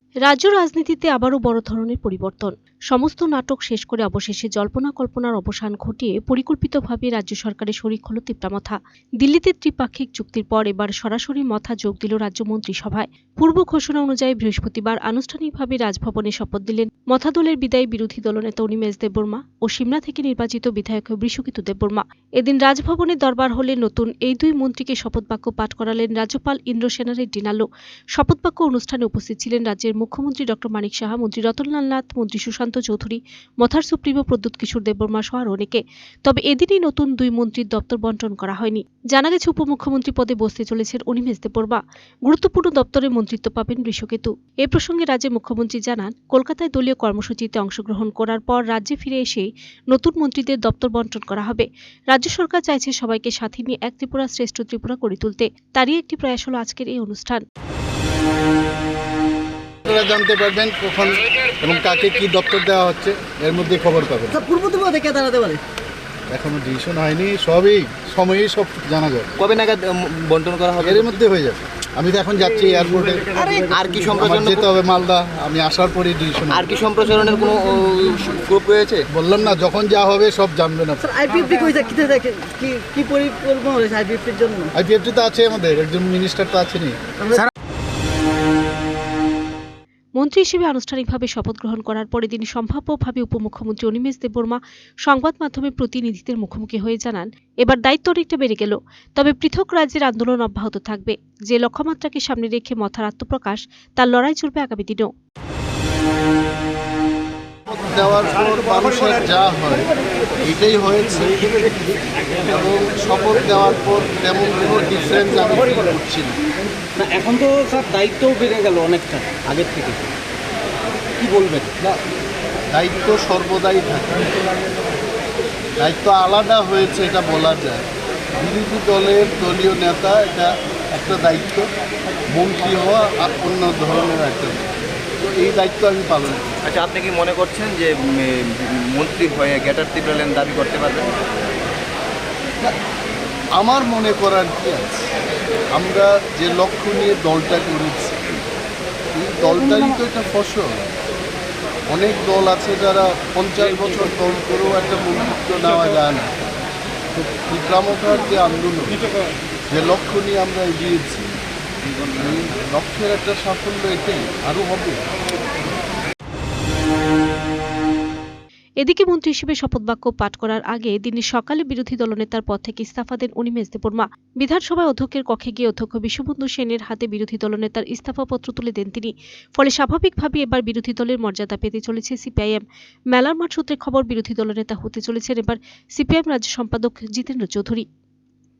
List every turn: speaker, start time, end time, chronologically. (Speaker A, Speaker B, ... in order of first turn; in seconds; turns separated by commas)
Speaker A: 0.2-57.4, Speaker B: 59.9-64.4, Speaker C: 64.3-65.6, Speaker B: 66.3-69.3, Speaker D: 69.4-71.1, Speaker B: 70.8-73.3, Speaker D: 73.4-74.7, Speaker B: 74.2-76.7, Speaker D: 76.5-79.0, Speaker B: 79.1-81.0, Speaker C: 81.0-84.7, Speaker B: 84.7-87.1, Speaker C: 87.2-87.5, Speaker A: 90.2-105.1, Speaker B: 107.7-109.9, Speaker B: 110.4-111.7, Speaker B: 112.4-116.4, Speaker E: 117.0-120.1, Speaker E: 121.2-121.8, Speaker B: 122.7-124.3, Speaker B: 125.8-127.8, Speaker B: 128.4-131.7, Speaker B: 132.3-134.7, Speaker B: 135.2-136.5, Speaker D: 136.6-141.1, Speaker B: 143.6-145.1, Speaker B: 145.7-148.4, Speaker B: 149.2-150.9, Speaker B: 151.9-156.3, Speaker B: 157.1-159.0, Speaker B: 159.7-161.3, Speaker B: 162.1-165.0, Speaker A: 168.8-187.8